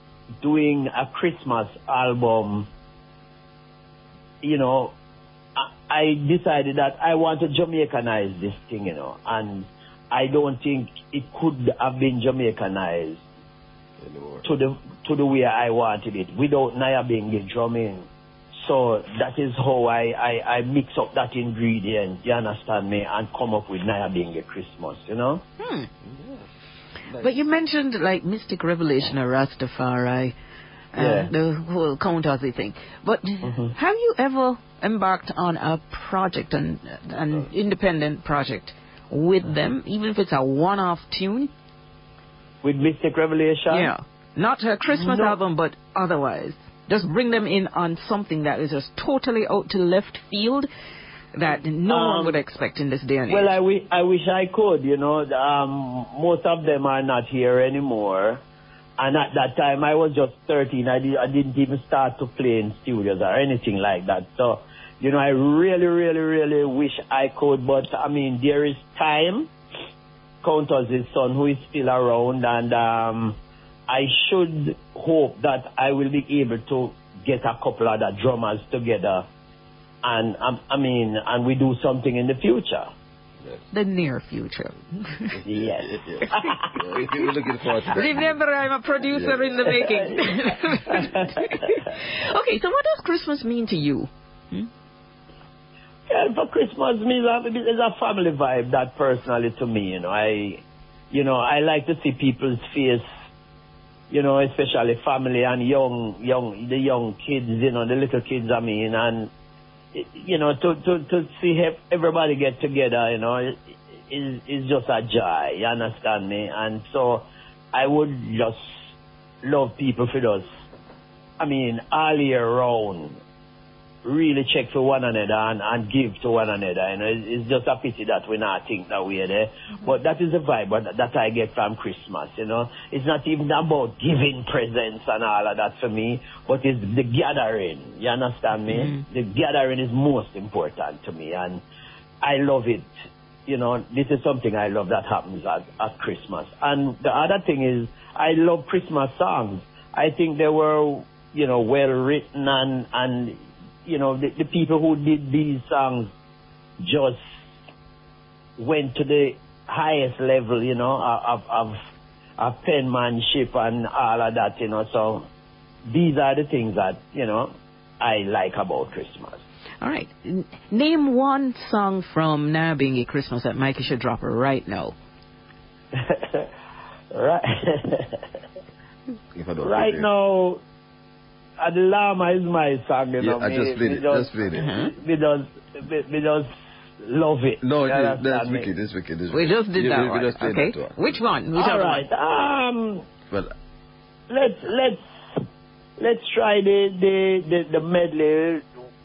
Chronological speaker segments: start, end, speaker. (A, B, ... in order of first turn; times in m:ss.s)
0:00.4-0:02.7 A
0:04.4-0:04.9 A
0:05.6-0:13.2 A
0:14.0-0:14.4 B
0:14.4-0:25.4 A
0:25.6-0:25.9 C
0:26.0-0:26.4 B
0:27.1-0:27.5 B
0:27.2-0:30.3 C
0:30.9-0:41.5 C
0:30.9-0:31.3 A
0:33.4-0:33.7 A
0:42.6-0:43.9 A
0:43.7-0:50.7 C
0:45.0-0:45.4 A
0:51.3-0:53.6 C
0:51.8-0:52.4 A
0:53.3-0:58.4 A
0:59.0-1:09.5 A
1:10.4-1:13.4 A
1:13.9-1:19.2 A
1:20.0-1:22.9 A
1:23.7-1:25.4 C
1:25.4-1:27.0 A
1:25.5-1:26.2 B
1:26.8-1:28.3 B
1:27.9-1:34.7 C
1:29.1-1:29.4 B
1:29.7-1:30.3 A
1:30.9-1:31.7 A
1:36.1-1:43.0 A
1:44.1-1:49.3 A
1:49.9-1:58.6 A
1:59.4-2:00.5 A
2:01.4-2:03.2 A
2:04.0-2:21.6 A
2:18.7-2:19.0 C
2:22.2-2:22.9 A
2:23.5-2:36.1 A
2:36.8-2:37.2 A
2:38.6-2:41.8 A
2:42.4-2:45.3 A
2:45.9-2:49.4 A
2:49.8-2:54.9 C
2:55.9-2:56.5 A
2:57.1-2:58.2 A
2:59.3-3:00.1 B
2:59.6-3:00.6 A
3:01.6-3:08.7 A
3:03.2-3:04.7 B
3:04.6-3:04.9 C
3:07.6-3:11.0 B
3:09.3-3:12.0 C
3:11.5-3:13.1 A
3:13.3-3:13.5 B
3:14.3-3:15.0 A
3:16.0-3:18.7 A